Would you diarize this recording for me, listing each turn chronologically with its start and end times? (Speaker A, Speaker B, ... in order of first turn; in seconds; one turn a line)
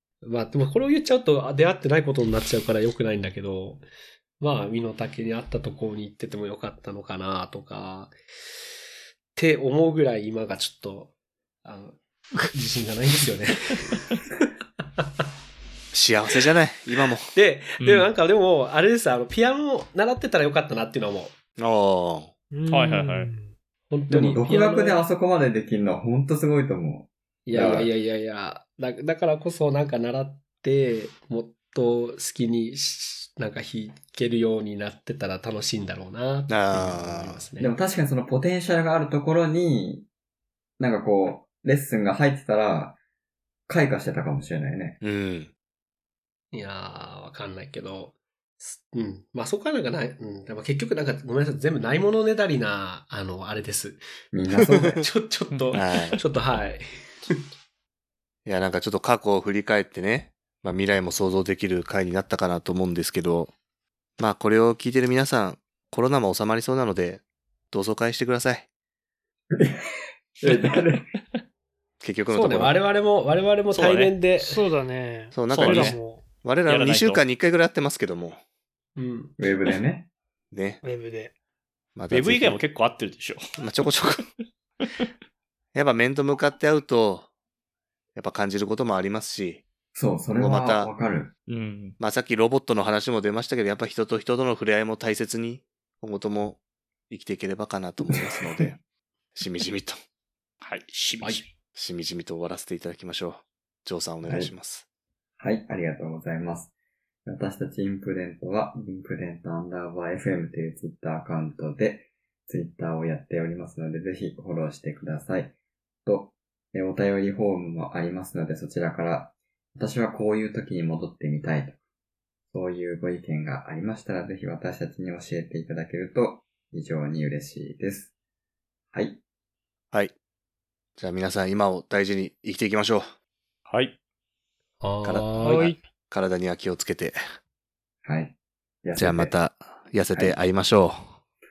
Speaker A: 0.2-3.9
Speaker A: 4.4-8.1
Speaker A: 9.3-11.1
Speaker A: 11.6-14.2
Speaker A: 15.0-15.2
Speaker B: 15.9-17.3
Speaker A: 17.3-21.3
Speaker C: 17.8-18.1
Speaker B: 21.6-22.3
Speaker D: 22.5-23.5
Speaker C: 22.7-23.3
Speaker A: 23.9-25.0
Speaker E: 24.1-27.9
Speaker A: 27.4-37.7
Speaker B: 36.5-37.4
Speaker E: 37.6-40.1
Speaker E: 40.8-43.0
Speaker E: 43.7-45.0
Speaker B: 45.0-45.5
Speaker A: 46.5-57.4
Speaker E: 54.3-55.0
Speaker C: 55.5-55.8
Speaker B: 55.7-56.2
Speaker B: 58.4-63.5
Speaker B: 64.2-68.7
Speaker E: 69.5-71.1
Speaker B: 72.0-72.8
Speaker A: 72.3-74.6
Speaker C: 73.7-74.2
Speaker D: 74.4-76.2
Speaker B: 75.3-78.4
Speaker C: 75.5-76.0
Speaker C: 76.7-77.2
Speaker A: 79.0-79.4
Speaker E: 79.4-80.1
Speaker B: 80.5-80.8
Speaker D: 80.8-81.3
Speaker B: 82.0-82.6
Speaker C: 82.1-83.6
Speaker B: 83.6-84.2
Speaker B: 85.7-87.3
Speaker B: 88.2-89.6
Speaker E: 89.9-91.3
Speaker B: 90.3-90.9
Speaker C: 91.5-92.0
Speaker B: 92.0-96.6
Speaker B: 97.1-98.8
Speaker B: 99.3-100.0
Speaker C: 100.6-101.5
Speaker B: 101.7-104.8
Speaker E: 104.2-104.5
Speaker E: 105.4-106.7
Speaker E: 107.2-115.5
Speaker E: 116.0-121.8
Speaker E: 122.5-128.1
Speaker E: 128.9-129.2
Speaker B: 131.0-133.1
Speaker C: 133.7-133.9
Speaker A: 134.8-135.7
Speaker B: 135.0-137.2
Speaker C: 135.4-135.8
Speaker E: 138.0-139.3
Speaker B: 139.0-141.2